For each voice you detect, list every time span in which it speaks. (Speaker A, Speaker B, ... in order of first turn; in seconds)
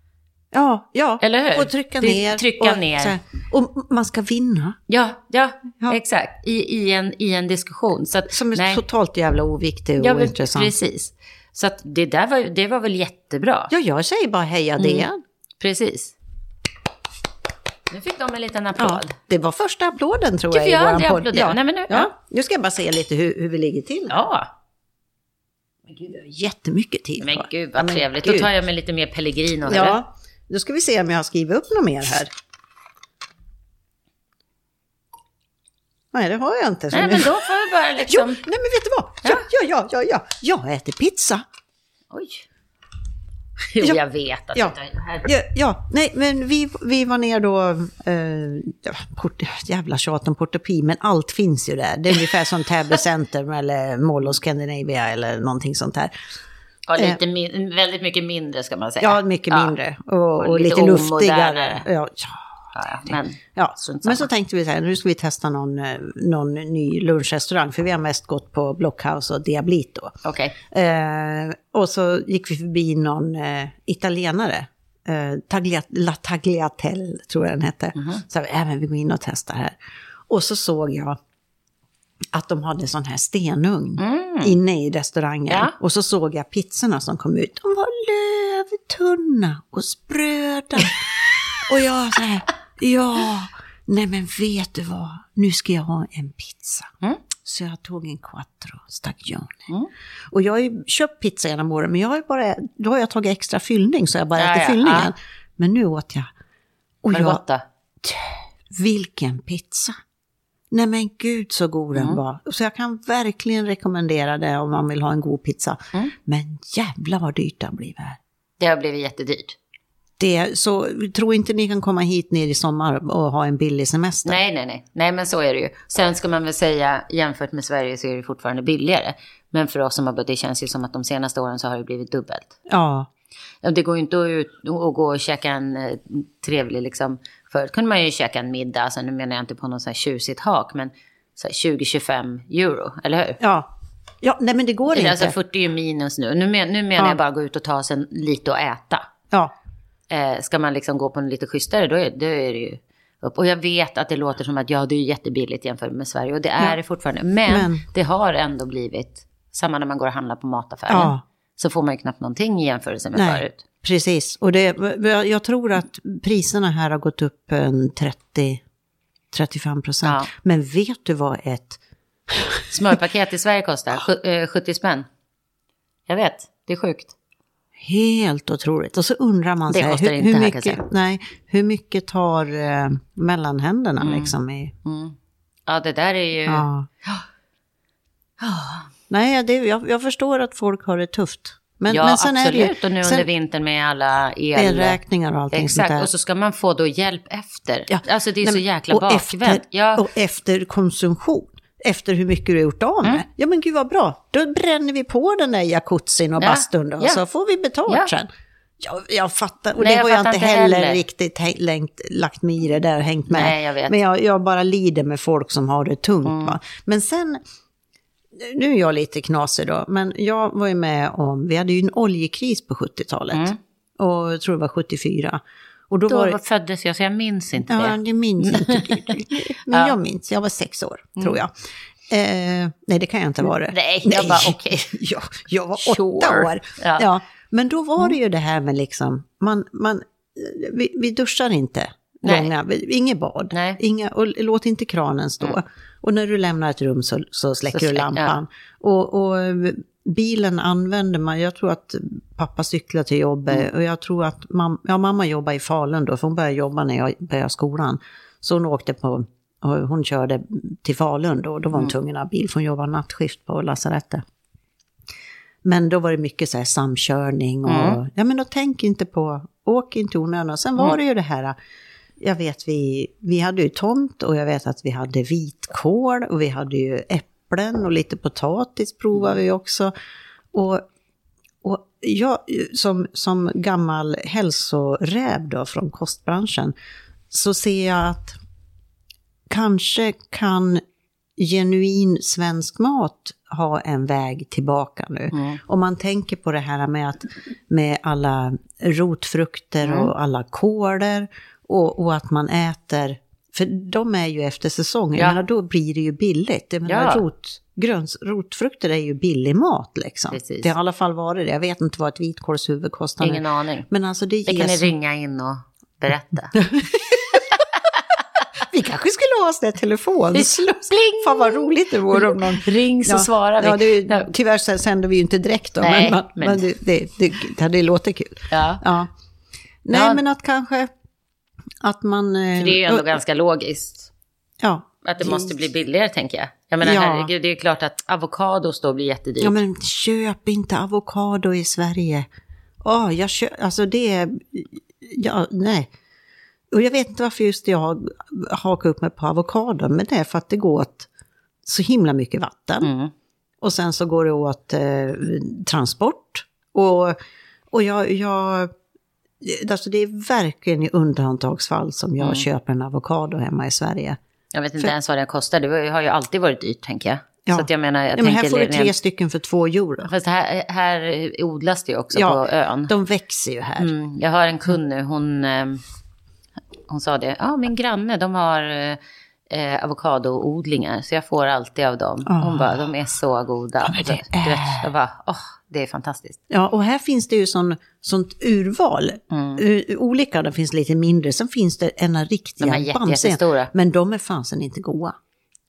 Speaker A: 0.5-4.8, 8.3-10.7, 13.7-15.2, 18.8-24.1, 25.9-28.5, 29.7-32.3, 36.1-37.5, 38.0-41.4, 44.5-56.1, 59.0-62.5, 63.5-79.8, 80.3-81.2, 82.3-96.9, 97.4-99.7, 100.3-106.3, 107.0-107.4, 108.0-110.0, 110.7-118.2, 120.2-124.4, 132.7-133.1, 143.4-143.7, 144.2-145.3, 157.5-157.8, 160.9-161.2, 163.2-168.6, 169.3-172.9, 177.8-184.7, 186.5-186.9, 189.1-193.3, 194.6-196.1, 197.9-208.3, 208.8-217.4, 218.3-226.4, 227.7-231.5, 232.1-264.2, 265.6-271.6, 272.2-279.9, 280.5-280.8, 281.6-286.7, 287.3-288.4, 289.5-290.8, 291.4-314.9, 316.5-317.4, 318.7-329.1, 329.9-330.9, 331.8-333.1, 334.6-335.5, 336.8-337.3, 339.4-342.3, 342.8-345.9, 346.7-351.1, 351.6-352.9, 353.6-357.2, 357.7-358.7, 359.4-364.2, 367.5-370.1, 372.1-373.9, 382.3-382.8, 383.8-384.9, 386.5-395.1
Speaker B: 1.2-3.2, 4.9-8.8, 10.0-13.7, 14.8-15.1, 15.6-16.2, 17.9-19.2, 20.5-22.1, 24.1-24.5, 27.2-30.0, 36.9-38.4, 42.1-42.5, 43.7-45.3, 56.9-59.7, 60.4-61.9, 62.8-64.3, 70.2-70.6, 78.0-78.2, 84.0-84.6, 85.5-85.7, 104.4-105.1, 107.1-107.6, 112.0-112.2, 118.6-119.6, 124.2-132.5, 133.6-143.4, 144.9-149.1, 150.1-163.6, 170.0-170.3, 172.7-175.1, 176.1-177.1, 179.7-180.8, 184.0-185.2, 185.7-187.2, 188.4-188.9, 191.9-195.0, 195.5-200.1, 206.4-207.2, 209.8-211.0, 213.3-213.9, 216.2-216.6, 223.3-223.6, 226.1-229.2, 229.7-229.9, 233.6-234.9, 235.8-237.1, 242.2-242.5, 243.5-243.8, 247.7-248.3, 267.7-268.0, 295.3-295.6, 299.8-300.1, 306.9-307.2, 310.3-310.7, 313.2-313.9, 314.5-316.6, 317.3-318.0, 320.3-324.3, 325.8-326.6, 328.5-328.8, 329.9-330.2, 332.6-334.1, 335.0-339.6, 352.8-353.1, 362.2-362.4, 364.5-368.9, 370.0-372.9, 373.8-375.8, 376.9-379.0, 379.5-386.4, 389.3-389.6, 392.6-393.7